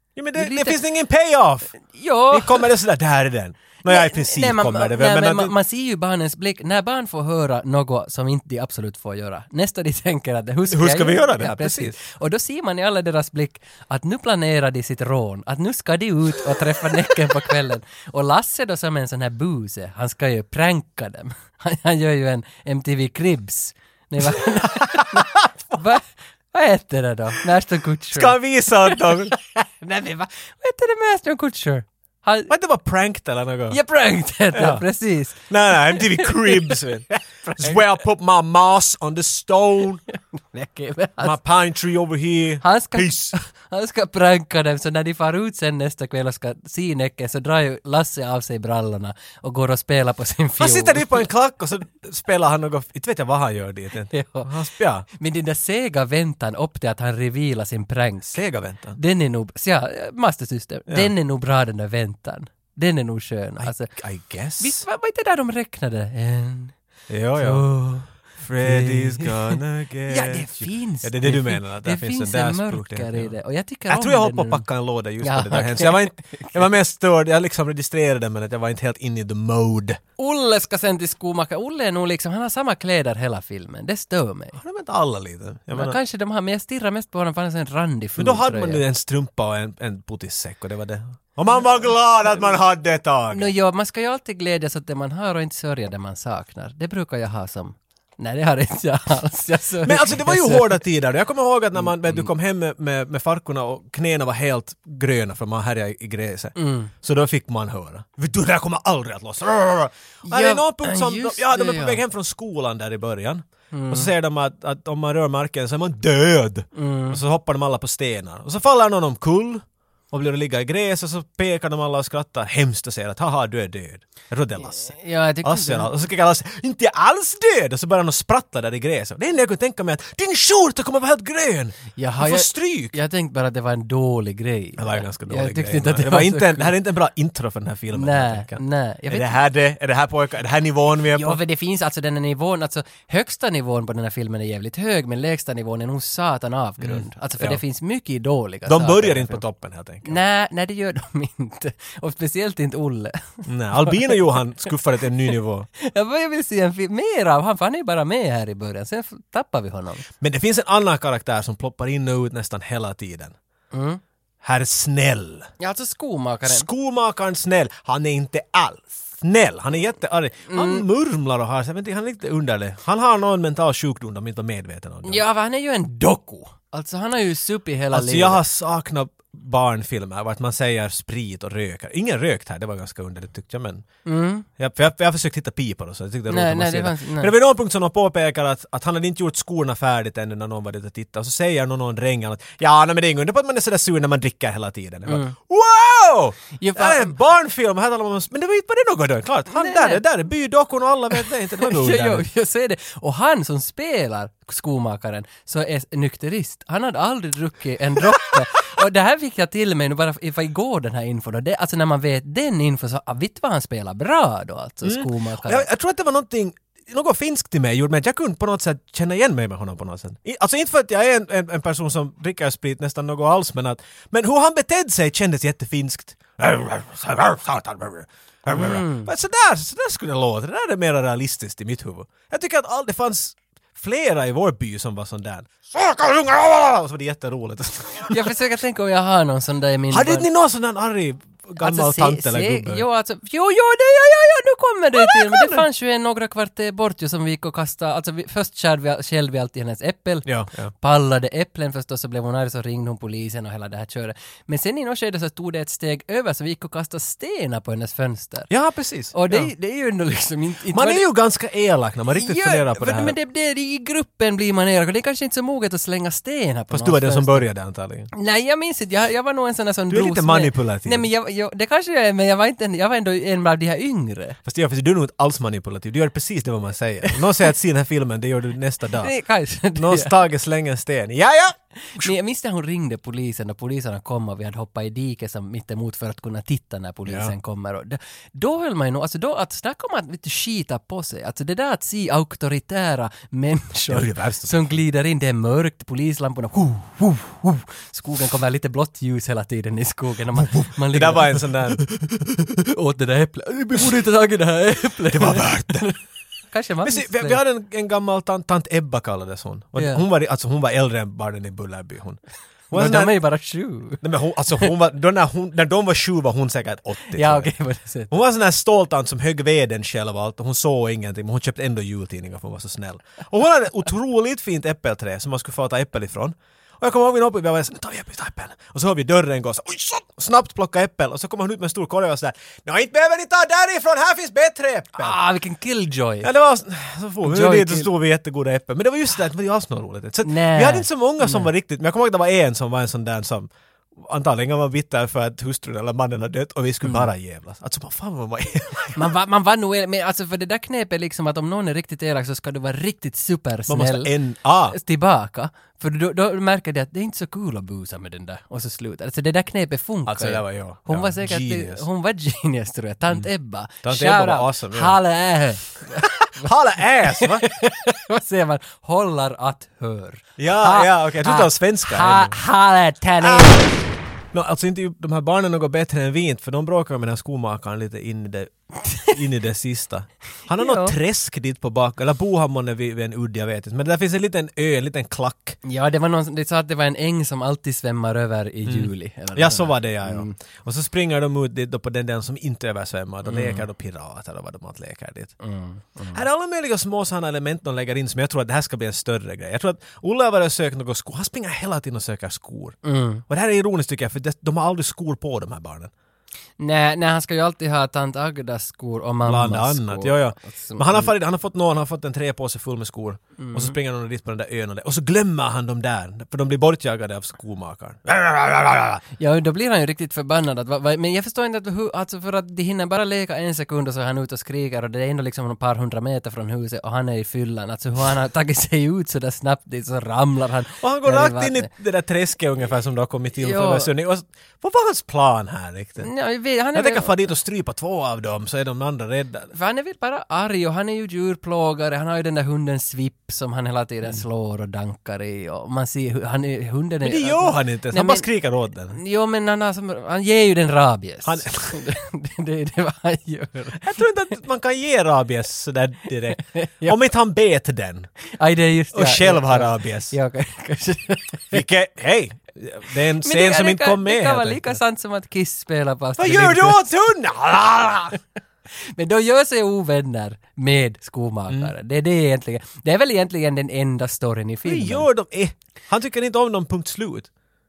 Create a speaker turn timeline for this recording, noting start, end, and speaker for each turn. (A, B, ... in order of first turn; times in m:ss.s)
0:00.2-0:01.8 A
0:00.4-0:00.8 B
0:01.8-0:02.7 B
0:02.3-0:05.5 A
0:03.9-0:32.5 B
0:10.7-0:12.0 A
0:24.9-0:25.8 A
0:28.1-0:29.4 A
0:32.5-0:33.8 A
0:33.7-0:36.8 B
0:34.5-0:40.0 A
0:37.4-0:37.8 B
0:40.4-0:41.4 B
0:41.2-0:43.4 A
0:42.6-0:51.3 B
0:50.6-0:55.1 A
0:54.1-0:54.5 B
0:55.1-0:58.4 B
0:58.3-0:59.0 A
0:59.0-1:03.9 B
1:03.6-1:04.8 A
1:04.6-1:06.8 B
1:07.1-1:07.7 A
1:07.4-1:14.7 B
1:08.4-1:13.4 A
1:13.9-1:20.0 A
1:15.2-1:16.7 B
1:20.2-1:24.6 B
1:24.6-1:26.0 A
1:25.7-1:28.8 B
1:28.2-1:33.5 A
1:33.3-1:40.8 B
1:39.8-2:13.0 A
1:41.8-1:42.3 B
1:46.6-1:46.9 B
1:50.3-1:52.0 B
1:53.7-1:54.1 B
1:56.8-1:57.2 B
2:04.7-2:05.9 B
2:12.0-2:16.7 B
2:14.8-2:21.4 A
2:17.9-2:19.3 B
2:21.1-2:29.4 B
2:26.8-2:27.6 A
2:28.7-2:30.2 A
2:30.0-2:34.2 B
2:33.5-2:35.7 A
2:35.8-2:40.1 B
2:40.2-2:43.4 A
2:43.7-2:44.0 B
2:44.4-2:45.5 A
2:45.6-2:46.7 B
2:46.4-2:55.2 A
2:50.5-2:50.8 B
2:55.0-2:58.4 B
2:57.9-3:03.9 A
3:04.0-3:04.5 B
3:04.6-3:22.2 A
3:06.3-3:07.3 B
3:15.1-3:15.4 B
3:16.6-3:17.2 B
3:19.5-3:20.0 B
3:21.2-3:35.7 B
3:34.8-3:58.3 A
3:48.5-3:49.1 B
3:58.1-4:00.3 B
3:59.9-4:02.8 A
4:01.6-4:18.5 B
4:05.0-4:05.6 A
4:10.2-4:10.7 A
4:18.5-4:19.5 A
4:19.1-4:21.0 B
4:20.7-4:23.2 A
4:22.1-4:27.5 B
4:26.7-4:28.1 A
4:28.2-4:34.4 B
4:29.9-4:31.1 A
4:34.4-4:39.1 A
4:39.0-4:40.2 B
4:39.7-4:42.1 A
4:41.8-5:01.5 B
4:47.1-4:47.3 A
4:53.9-4:54.6 A
5:00.4-5:02.3 A
5:02.8-5:06.0 B
5:05.1-5:05.9 A
5:06.5-5:07.4 B
5:06.8-5:12.2 A
5:09.8-5:10.0 B
5:12.7-5:13.2 A
5:12.7-5:14.0 B
5:14.0-5:17.5 A
5:17.1-5:18.1 B
5:18.1-5:35.2 A
5:35.0-5:36.3 B
5:36.2-5:49.0 A
5:37.2-5:37.9 B
5:40.2-5:41.5 B
5:46.8-5:47.1 B
5:48.9-5:54.1 B
5:53.7-5:54.8 A
5:54.7-6:06.5 B
6:00.1-6:01.9 A
6:03.8-6:05.0 A
6:06.2-6:07.5 A
6:07.2-6:13.7 B
6:10.4-6:12.4 A
6:13.2-6:13.7 A
6:14.3-6:25.6 A
6:20.6-6:20.9 B
6:25.6-6:30.3 B
6:28.7-6:35.4 A
6:33.2-6:33.6 B
6:35.4-6:36.2 B
6:36.1-6:45.9 A
6:42.8-6:43.2 B
6:46.6-6:51.1 B
6:49.2-6:59.0 A
6:53.4-6:53.8 B
6:59.2-7:11.7 B
7:10.8-7:16.1 A
7:13.4-7:13.9 B
7:16.0-7:17.2 B
7:16.7-7:19.5 A
7:19.5-7:28.3 B
7:27.0-7:29.0 A
7:28.9-7:33.8 B
7:31.2-7:31.9 A
7:33.7-7:38.1 A
7:36.4-7:37.0 B
7:38.4-7:41.6 B
7:38.9-7:40.1 A
7:41.5-7:44.8 A
7:43.2-7:46.9 B
7:46.2-7:48.2 A
7:48.9-7:55.1 B
7:54.6-7:57.3 A